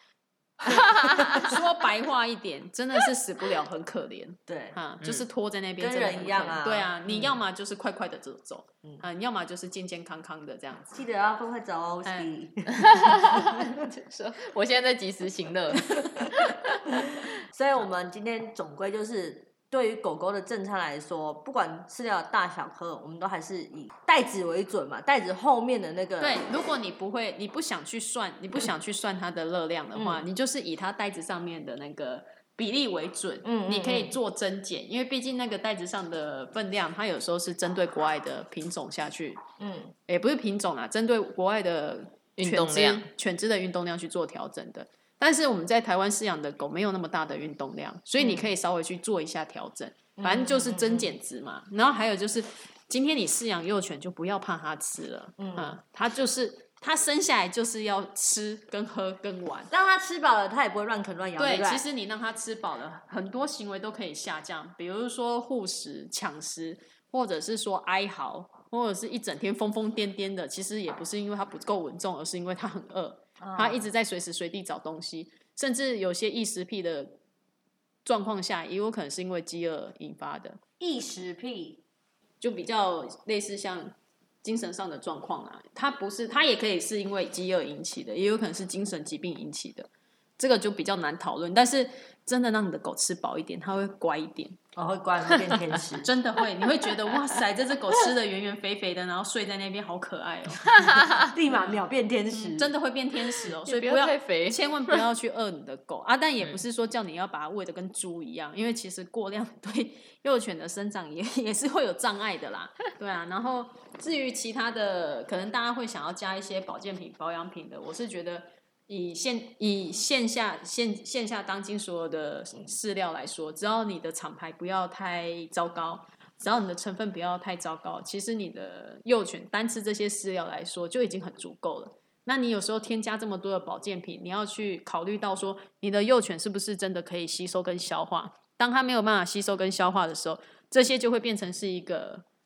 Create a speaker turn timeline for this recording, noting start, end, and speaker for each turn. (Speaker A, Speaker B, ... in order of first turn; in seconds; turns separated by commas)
Speaker A: 0.8-1.4, Speaker B: 1.3-11.0, Speaker A: 4.5-4.8, Speaker A: 5.8-7.4, Speaker A: 10.9-13.0, Speaker C: 12.8-16.6, Speaker A: 16.9-26.4, Speaker B: 26.2-39.4, Speaker A: 29.9-30.2, Speaker A: 33.4-34.2, Speaker A: 39.6-39.9, Speaker B: 40.1-59.7, Speaker C: 42.4-43.1, Speaker A: 48.2-48.5, Speaker A: 50.2-51.1, Speaker A: 55.4-55.8, Speaker A: 59.7-61.8, Speaker B: 61.4-77.2, Speaker A: 73.4-73.8, Speaker B: 78.0-80.6, Speaker A: 80.8-81.8, Speaker B: 82.4-94.6, Speaker A: 94.8-96.1, Speaker B: 96.0-101.0, Speaker C: 100.8-101.1, Speaker A: 101.3-102.7, Speaker B: 101.5-101.8, Speaker B: 102.3-142.2, Speaker C: 103.7-105.0